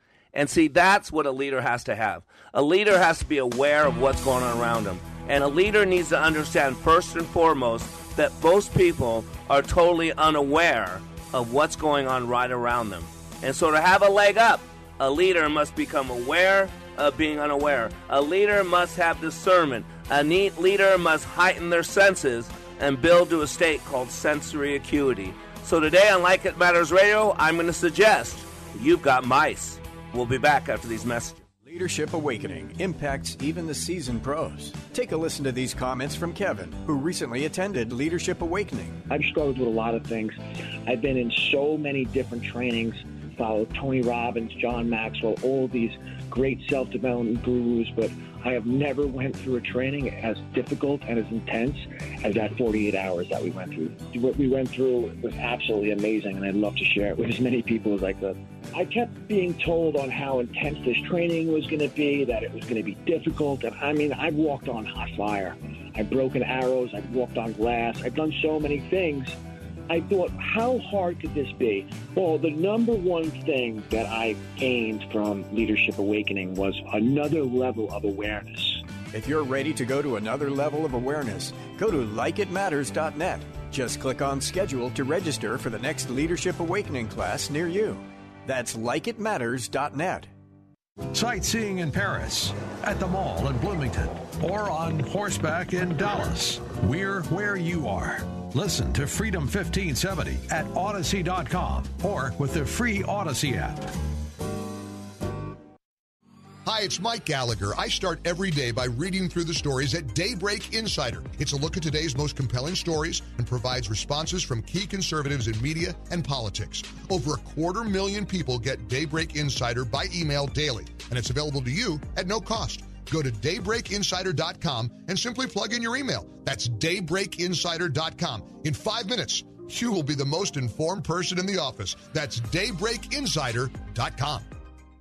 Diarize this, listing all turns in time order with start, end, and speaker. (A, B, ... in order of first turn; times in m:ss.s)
0:00.3-0:31.4 A
0:31.6-0:39.0 B
0:39.1-1:09.4 C
1:09.9-1:18.8 C
1:19.1-1:30.3 B
1:31.1-1:43.9 D
1:46.6-2:14.5 E